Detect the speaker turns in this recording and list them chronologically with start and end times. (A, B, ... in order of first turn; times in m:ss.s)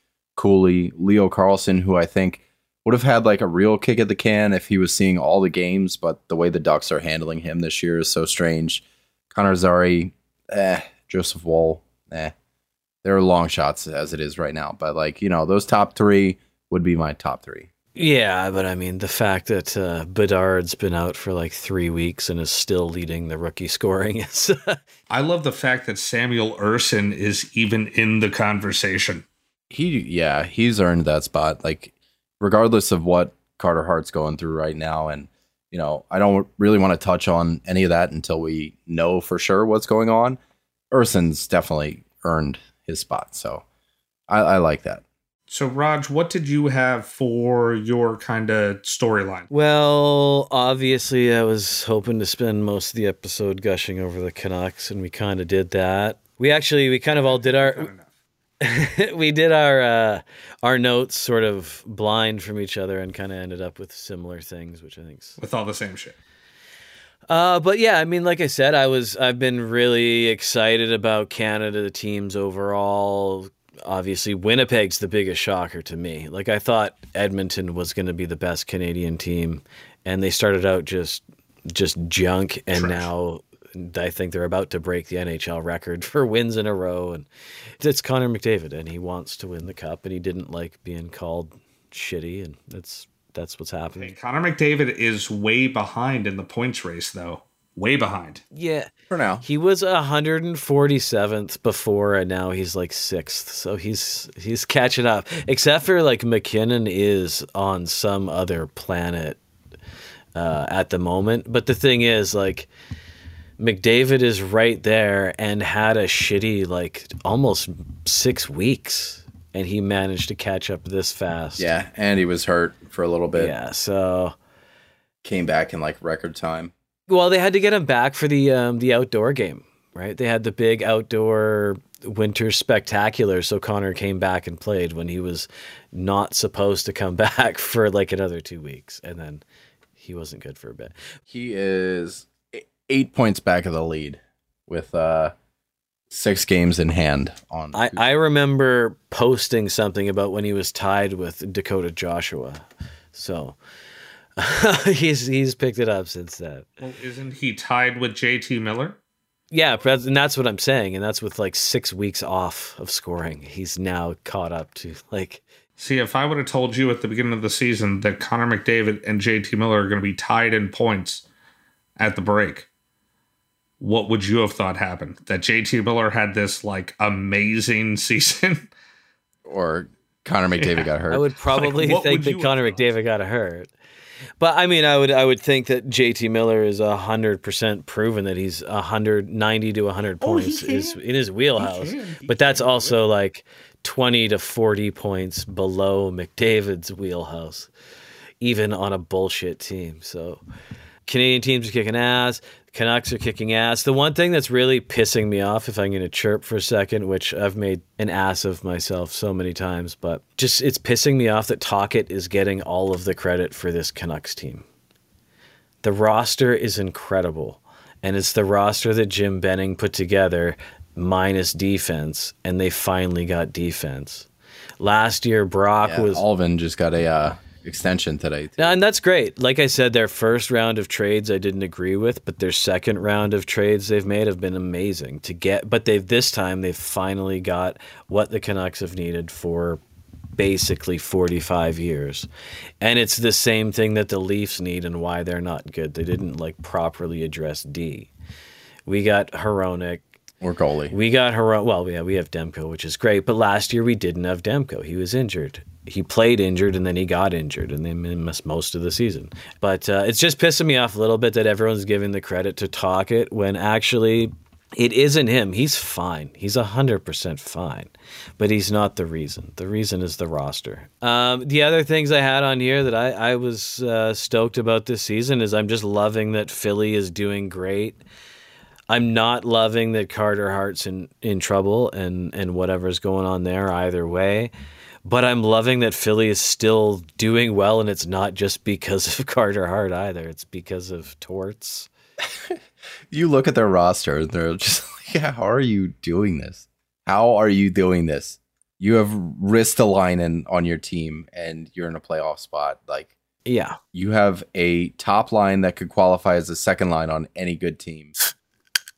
0:00.4-0:12.3 A
0:13.0-0:17.7 A
0:18.0-0:24.8 B
0:25.1-0:29.2 C
0:29.7-0:40.4 A
0:40.9-0:43.6 A
0:44.3-0:45.0 A
0:45.5-0:49.5 C
0:49.5-0:57.9 B
0:57.3-0:58.1 C
0:58.6-1:05.4 B
1:05.4-1:06.2 C
1:07.3-1:27.2 B
1:22.8-1:23.0 C
1:27.8-1:34.1 B
1:34.0-1:38.4 C
1:38.5-1:38.9 B
1:39.1-1:39.4 A
1:39.4-1:49.4 B
1:50.3-1:52.7 B
1:53.6-2:01.7 B
2:01.6-2:03.5 A
2:03.3-2:04.3 B
2:05.2-2:06.7 A
2:07.1-2:19.4 B
2:20.0-2:20.9 B
2:21.3-2:25.3 A
2:26.1-2:28.1 A
2:27.7-2:33.6 B
2:34.4-2:36.7 B
2:36.8-2:39.0 C
2:39.5-2:45.4 B
2:45.8-2:51.2 C
2:52.0-2:52.7 C
2:53.8-2:58.7 C
2:59.4-3:01.3 A
3:00.6-3:00.9 C
3:01.1-3:03.7 B
3:01.4-3:02.8 C
3:04.4-3:17.7 B
3:10.2-3:11.0 C
3:11.6-3:13.0 C
3:18.4-3:20.4 B
3:21.0-3:34.6 B
3:35.8-3:44.3 B
3:44.8-3:46.2 B
3:45.8-3:48.8 A
3:48.6-3:59.8 B
4:00.4-4:02.3 B
4:02.8-4:08.1 B
4:08.8-4:10.0 B
4:10.4-4:11.0 A
4:10.9-4:38.0 B
4:38.9-4:44.5 B
4:45.0-4:51.9 B
4:52.2-4:52.6 A
4:53.1-5:03.1 A
5:03.4-5:03.8 B
5:03.9-5:08.1 A